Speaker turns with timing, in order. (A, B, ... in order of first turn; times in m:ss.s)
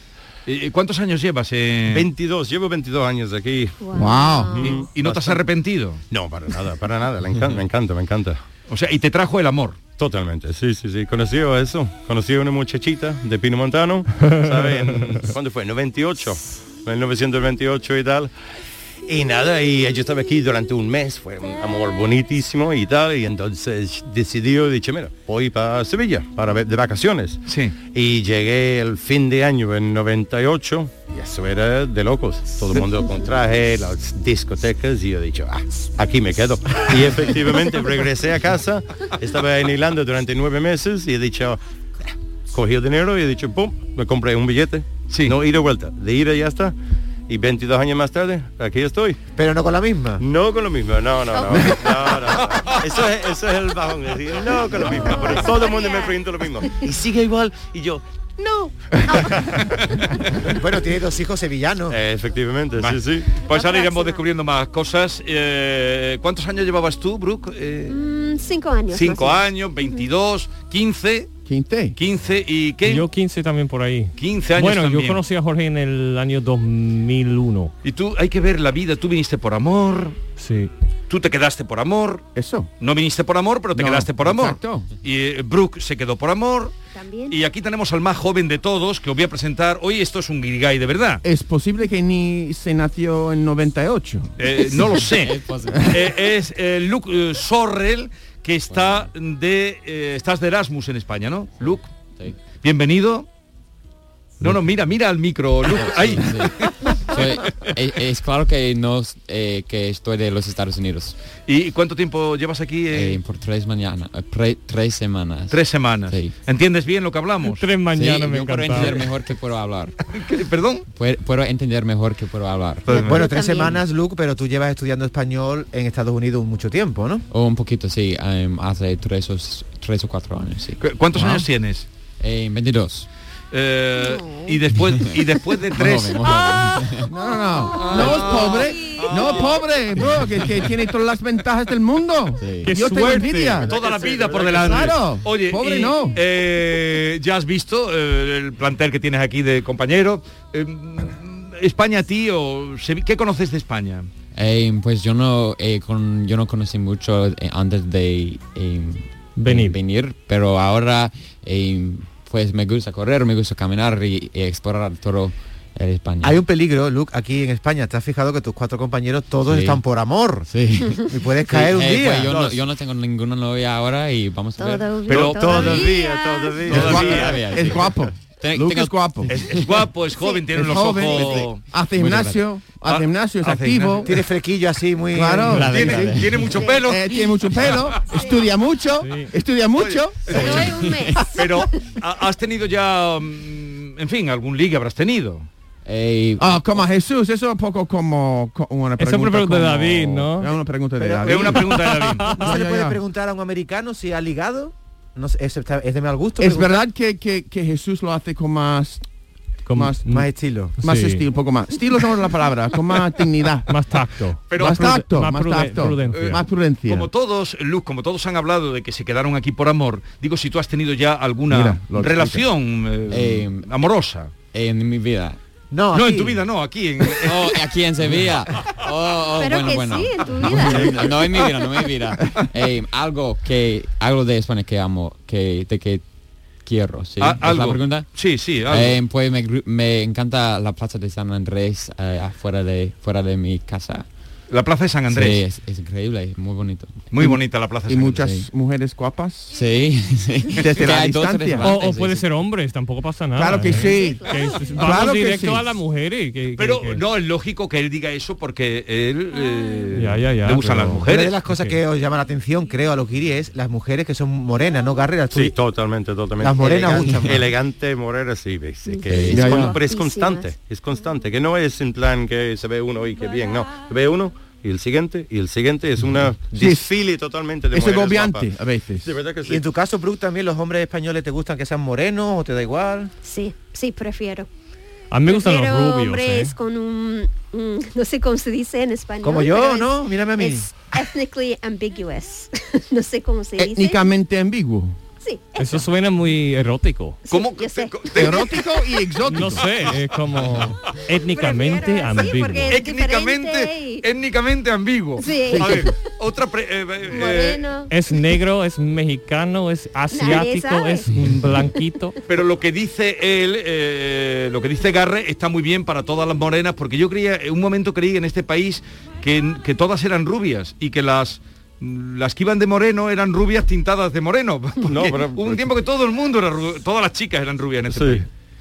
0:00.5-0:02.1 A
0:01.9-0:03.8 B
0:03.8-0:04.8 C
0:03.9-0:04.7 D
0:04.5-0:05.4 B
0:04.6-0:06.0 A
0:06.1-0:08.4 B
0:08.7-0:09.8 A
0:10.0-0:18.3 B
0:14.3-0:15.1 E
0:19.0-0:41.6 B
0:27.5-0:27.8 A
0:42.5-0:46.8 B
0:45.1-0:45.4 A
0:47.3-0:49.2 B
0:49.4-0:50.2 F
0:50.2-0:59.5 B
0:51.3-0:52.4 C
0:54.6-0:56.8 C
0:59.1-0:59.4 C
1:00.4-1:02.0 F
1:01.9-1:03.4 B
1:02.8-1:08.0 A
1:03.5-1:04.2 C
1:07.9-1:10.0 C
1:08.9-1:11.3 A
1:11.5-1:12.0 D
1:12.0-1:13.1 A
1:12.8-1:17.7 E
1:14.2-1:15.2 A
1:17.8-1:20.2 A
1:20.4-1:20.7 E
1:21.1-1:22.2 A
1:22.4-1:22.7 D
1:22.8-1:26.7 A
1:23.8-1:24.9 D
1:26.9-1:27.4 C
1:27.3-1:31.2 A
1:31.2-1:34.3 D
1:34.4-1:41.9 A
1:35.0-1:36.0 G
1:38.7-1:39.1 G
1:41.6-1:42.4 G
1:42.6-1:43.3 A
1:44.4-1:47.7 A
1:45.7-1:51.2 G
1:51.5-1:53.2 A
1:52.9-1:56.3 G
1:55.5-1:57.6 A
1:57.4-1:59.0 E
1:57.9-1:59.9 G
2:00.2-2:00.8 A
2:00.9-2:02.9 G
2:02.9-2:03.3 A
2:02.9-2:03.8 C
2:02.9-2:07.2 F
2:07.3-2:11.5 G
2:10.8-2:11.9 A
2:12.2-2:13.1 G
2:13.5-2:16.2 A
2:14.0-2:14.6 C
2:15.7-2:17.1 G
2:17.1-2:23.8 D
2:17.8-2:19.5 A
2:17.8-2:19.4 C
2:20.0-2:20.3 G
2:22.4-2:22.7 G
2:22.6-2:23.6 E
2:23.0-2:34.1 A
2:23.5-2:24.9 B
2:24.4-2:26.2 D
2:34.3-2:46.4 G
2:39.4-2:39.8 E
2:46.2-2:50.5 F
2:49.5-2:49.8 G
2:50.5-2:54.9 G
2:51.0-2:52.3 F
2:52.3-2:52.6 A
2:54.6-2:56.8 C
2:55.1-2:55.9 A
2:55.1-2:57.3 B
2:56.6-2:57.4 A
2:56.7-2:59.4 D
2:56.7-2:59.9 G
2:59.3-3:01.6 A
3:00.1-3:00.5 C
3:00.5-3:04.2 D
3:01.1-3:02.4 G
3:02.8-3:04.2 A
3:04.0-3:06.1 F
3:05.1-3:05.9 D
3:05.5-3:06.5 G
3:05.6-3:08.0 A
3:06.5-3:08.5 C
3:06.7-3:10.4 D
3:09.0-3:09.3 E
3:09.8-3:15.5 A
3:10.3-3:11.7 C
3:10.3-3:11.2 G
3:15.8-3:16.9 G
3:16.4-3:23.0 D
3:19.0-3:20.5 E
3:21.0-3:21.6 F
3:21.2-3:22.3 A
3:21.5-3:22.5 E
3:22.3-3:26.8 F
3:26.4-3:29.0 D
3:29.7-3:30.3 E
3:29.7-3:30.0 D
3:30.1-3:30.8 F
3:30.8-3:31.2 E
3:30.8-3:33.7 D
3:33.7-3:36.4 E
3:34.5-3:34.8 A
3:34.5-3:37.1 D
3:36.1-3:44.3 A
3:41.5-3:42.4 D
3:43.1-3:43.7 G
3:44.5-3:45.4 G
3:45.7-3:46.4 F
3:45.9-3:47.6 A
3:47.1-3:56.0 G
3:49.4-3:51.5 C
3:56.6-3:58.1 G
3:57.2-3:59.0 A
3:58.6-4:04.1 G
4:04.5-4:05.4 A
4:05.1-4:07.0 G
4:07.1-4:08.3 A
4:07.2-4:09.5 D
4:08.2-4:08.5 G
4:09.5-4:12.3 G
4:10.6-4:11.7 D
4:11.6-4:17.0 E
4:13.4-4:15.7 D
4:13.7-4:15.1 C
4:16.6-4:21.4 A
4:20.0-4:21.8 E
4:21.1-4:25.6 F
4:25.3-4:38.5 B
4:26.4-4:27.5 F
4:28.9-4:30.5 C
4:29.1-4:29.7 G
4:29.3-4:29.8 D
4:36.5-4:36.9 D
4:37.7-4:39.2 D
4:39.0-4:39.6 B
4:39.5-4:43.1 F
4:43.2-4:44.5 C
4:45.1-4:46.6 E
4:45.3-4:54.0 C
4:49.2-4:50.7 F
4:53.6-4:55.0 D
4:55.2-4:55.8 C
4:55.6-4:57.2 E
4:57.3-4:58.6 C
4:57.3-4:58.6 A
4:58.1-4:59.9 D
4:59.3-5:02.8 E
4:59.5-4:59.9 A
5:01.3-5:04.1 C
5:02.7-5:07.6 A
5:05.2-5:06.1 C
5:05.5-5:05.9 D
5:07.1-5:07.9 C
5:07.9-5:12.2 E
5:10.1-5:11.1 C
5:12.3-5:28.3 A
5:24.8-5:25.7 B
5:27.9-5:28.3 B